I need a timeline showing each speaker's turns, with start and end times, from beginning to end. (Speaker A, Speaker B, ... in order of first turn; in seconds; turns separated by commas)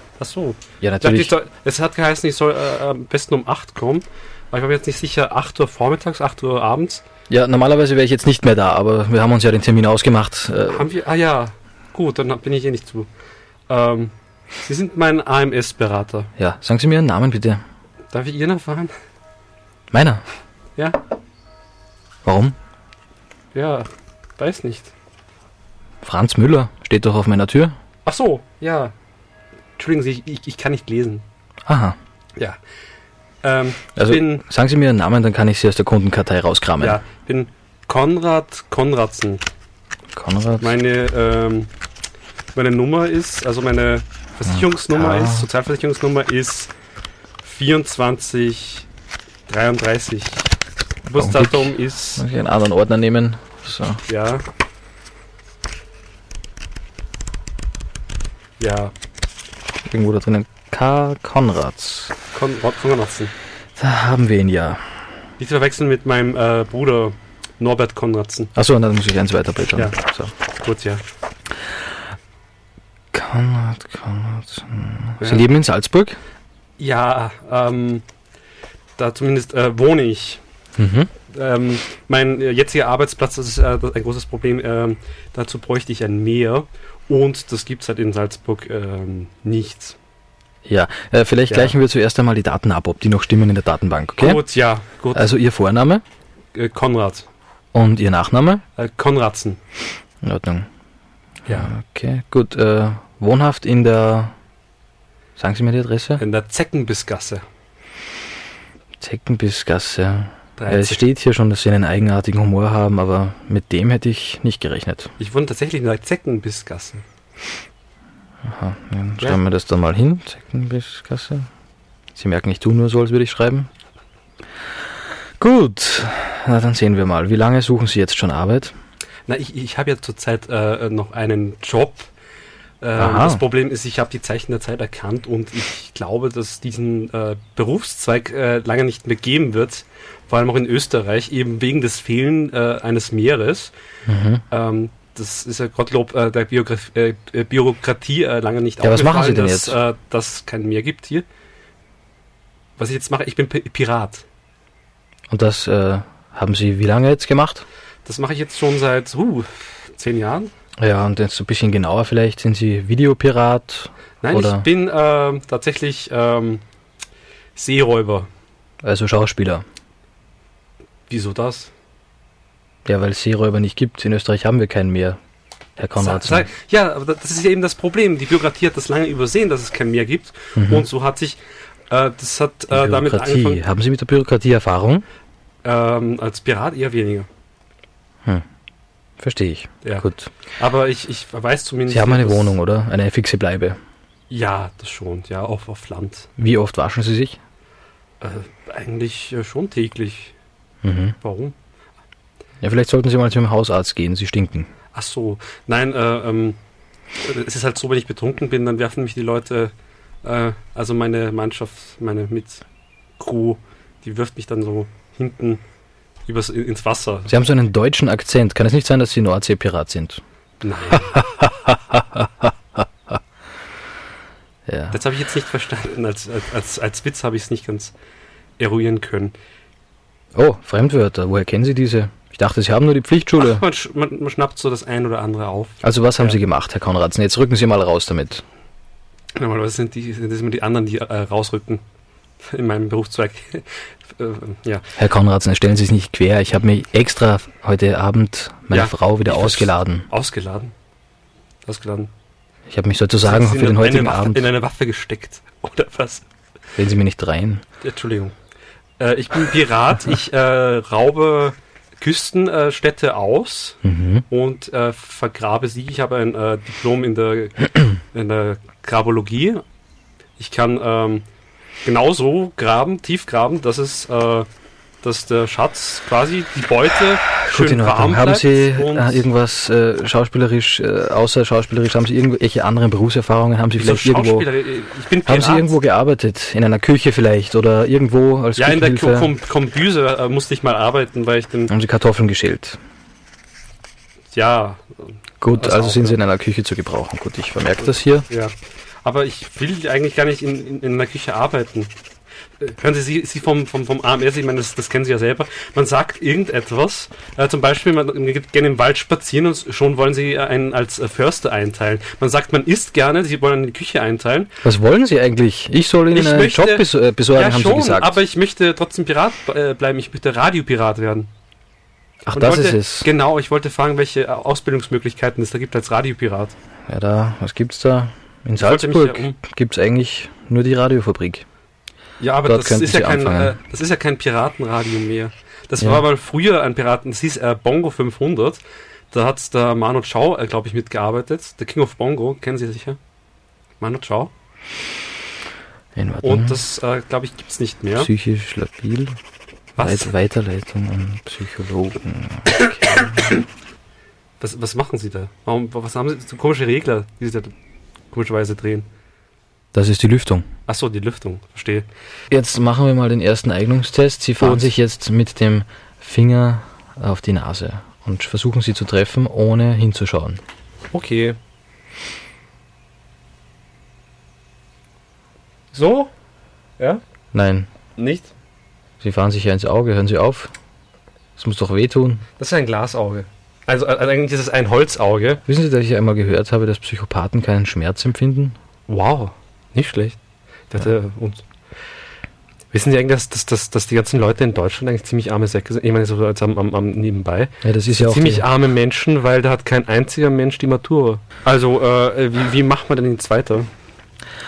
Speaker A: 0.2-7.0, Speaker B: 0.8-1.3, Speaker B: 7.3-10.9, Speaker A: 10.7-13.1, Speaker A: 13.7-16.3, Speaker B: 16.4-17.6, Speaker A: 18.1-18.9, Speaker B: 19.9-20.2, Speaker B: 22.2-22.6, Speaker A: 23.5-24.9, Speaker B: 26.0-27.7, Speaker A: 28.1-28.9, Speaker A: 29.8-31.2, Speaker B: 31.7-32.0, Speaker A: 33.4-34.4, Speaker B: 34.0-37.0, Speaker A: 36.8-39.4, Speaker B: 40.1-40.7, Speaker A: 40.6-41.7, Speaker A: 42.5-46.7, Speaker B: 44.5-45.5, Speaker A: 47.4-48.9, Speaker A: 49.5-50.5, Speaker A: 51.1-52.2, Speaker B: 51.2-54.0, Speaker A: 54.1-54.4, Speaker A: 58.6-58.9, Speaker B: 59.9-62.1, Speaker A: 62.3-63.3, Speaker B: 63.8-65.1, Speaker A: 65.4-68.5, Speaker B: 68.6-70.3, Speaker A: 70.6-71.0, Speaker B: 73.1-76.2, Speaker A: 75.2-75.5, Speaker A: 76.8-78.0, Speaker A: 79.0-80.4, Speaker B: 80.8-81.1, Speaker A: 81.2-90.0, Speaker B: 90.7-94.4, Speaker A: 91.5-91.8, Speaker A: 94.2-95.4, Speaker B: 95.2-96.0, Speaker A: 96.5-97.3, Speaker B: 97.7-98.6, Speaker A: 98.8-99.6, Speaker B: 100.2-100.7, Speaker B: 101.5-104.3, Speaker B: 105.4-106.2, Speaker A: 106.2-107.4, Speaker B: 109.0-115.1, Speaker A: 110.6-111.0, Speaker A: 115.2-117.0, Speaker B: 118.5-121.5, Speaker B: 122.2-123.7, Speaker B: 125.4-128.8, Speaker A: 129.3-132.1, Speaker A: 132.8-143.7, Speaker B: 133.0-133.4, Speaker B: 144.1-144.4, Speaker A: 144.5-151.3, Speaker B: 148.8-149.8, Speaker A: 152.8-154.2, Speaker B: 155.3-157.7, Speaker A: 158.1-160.5, Speaker B: 160.8-164.7, Speaker A: 164.2-166.6, Speaker A: 167.6-168.3, Speaker B: 168.8-169.6, Speaker A: 171.1-171.7, Speaker B: 172.9-175.2, Speaker B: 175.8-176.5, Speaker A: 176.0-181.4, Speaker B: 180.6-180.9, Speaker A: 181.9-183.6, Speaker B: 182.7-185.1, Speaker A: 185.6-187.3, Speaker B: 189.2-190.3, Speaker A: 189.8-190.1, Speaker A: 190.6-192.6, Speaker B: 191.9-193.8, Speaker A: 194.3-196.3, Speaker B: 196.4-197.4, Speaker A: 198.2-200.3, Speaker B: 200.8-201.2, Speaker A: 201.2-201.6, Speaker B: 202.6-204.7, Speaker A: 204.9-206.6, Speaker A: 207.2-212.6, Speaker A: 213.2-215.6, Speaker A: 216.3-217.3, Speaker B: 217.3-220.2, Speaker A: 220.6-221.2, Speaker B: 221.1-222.8, Speaker B: 224.7-225.0, Speaker A: 224.9-227.9, Speaker A: 228.6-229.3, Speaker B: 230.3-233.6, Speaker A: 233.4-236.4, Speaker B: 235.8-238.4, Speaker A: 239.4-241.8, Speaker A: 242.4-244.9, Speaker B: 245.0-250.1, Speaker A: 248.7-250.7, Speaker A: 251.7-252.1, Speaker B: 252.7-254.5, Speaker A: 253.2-256.2, Speaker B: 256.8-257.6, Speaker A: 257.8-258.4, Speaker A: 259.0-263.8, Speaker B: 263.8-264.2, Speaker A: 264.3-269.6, Speaker A: 270.4-271.3, Speaker A: 271.8-274.5, Speaker A: 275.0-279.3, Speaker B: 277.3-284.5, Speaker A: 283.8-285.7, Speaker B: 285.3-289.3, Speaker A: 288.6-291.7, Speaker B: 291.7-292.8, Speaker A: 294.3-296.2, Speaker B: 295.4-298.3, Speaker A: 297.8-301.9, Speaker A: 302.6-314.5, Speaker B: 314.6-318.2, Speaker A: 316.1-321.3, Speaker B: 322.3-323.1, Speaker A: 322.3-326.6, Speaker B: 326.9-331.4, Speaker A: 328.6-329.4, Speaker A: 332.2-343.0, Speaker B: 332.5-333.6, Speaker A: 343.8-344.3, Speaker B: 346.0-346.6, Speaker A: 346.2-348.1, Speaker B: 348.0-349.2, Speaker A: 349.8-350.1, Speaker B: 349.8-353.2, Speaker A: 354.4-357.5, Speaker A: 358.1-358.9, Speaker B: 359.7-360.5, Speaker A: 360.7-361.9, Speaker B: 362.3-370.4, Speaker A: 364.4-364.7, Speaker A: 370.9-371.4, Speaker A: 375.7-376.1, Speaker B: 377.3-377.7, Speaker A: 378.0-378.3, Speaker B: 379.0-380.5, Speaker B: 381.4-382.2, Speaker A: 382.4-385.4, Speaker B: 385.5-388.6, Speaker A: 388.9-390.2, Speaker A: 390.7-391.5, Speaker A: 392.7-403.7, Speaker B: 397.6-398.5